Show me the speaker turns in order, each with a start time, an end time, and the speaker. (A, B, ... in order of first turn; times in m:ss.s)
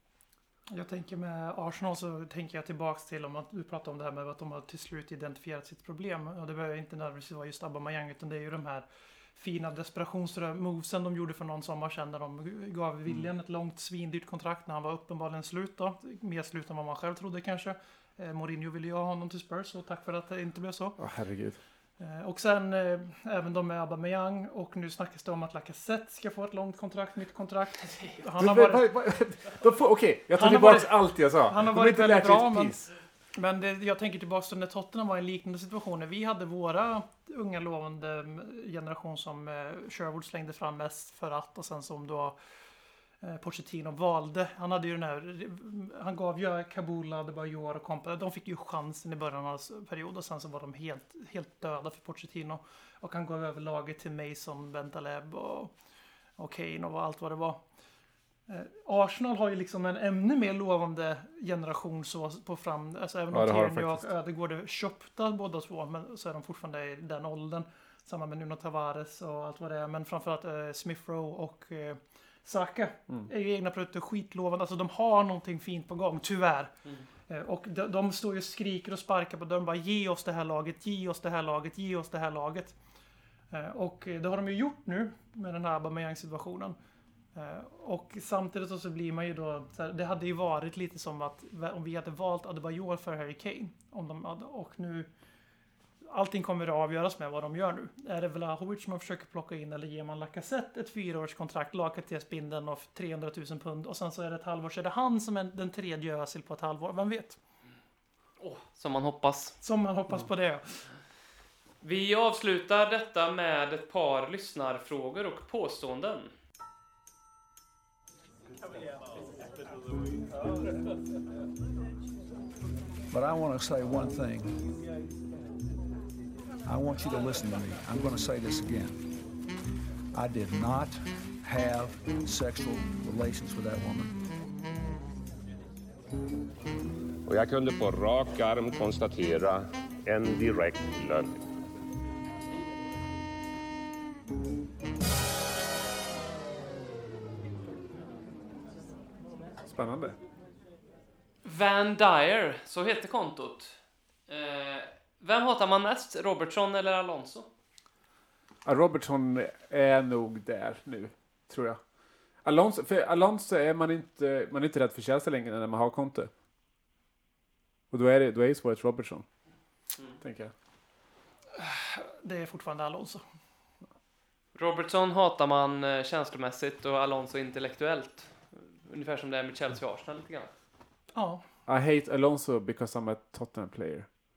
0:00.7-0:21.0 A
0:21.0-0:21.6 B
0:22.0-0:28.9 A
0:27.8-0:28.2 C
0:28.4-0:32.9 B
0:30.4-0:32.8 A
0:33.4-0:42.4 A
0:43.2-0:55.7 A
0:56.4-0:57.6 A
0:58.5-1:16.7 A
1:03.3-1:04.1 B
1:17.3-1:22.8 A
1:23.5-1:26.8 A
1:27.4-1:35.1 A
1:36.1-1:47.4 A
1:48.4-1:49.6 C
1:49.6-1:50.8 A
1:51.8-1:56.3 C
2:03.1-2:04.7 D
2:06.6-2:09.1 D
2:10.1-2:14.2 D
2:17.3-2:21.3 E
2:29.6-2:30.2 B
2:31.4-2:37.5 C
2:38.6-2:41.8 B
2:42.4-2:46.3 B
2:47.9-2:49.3 B
2:50.2-2:50.5 B
2:51.5-2:53.2 A
2:54.6-3:00.5 C
3:01.1-3:01.4 A
3:01.7-3:04.1 B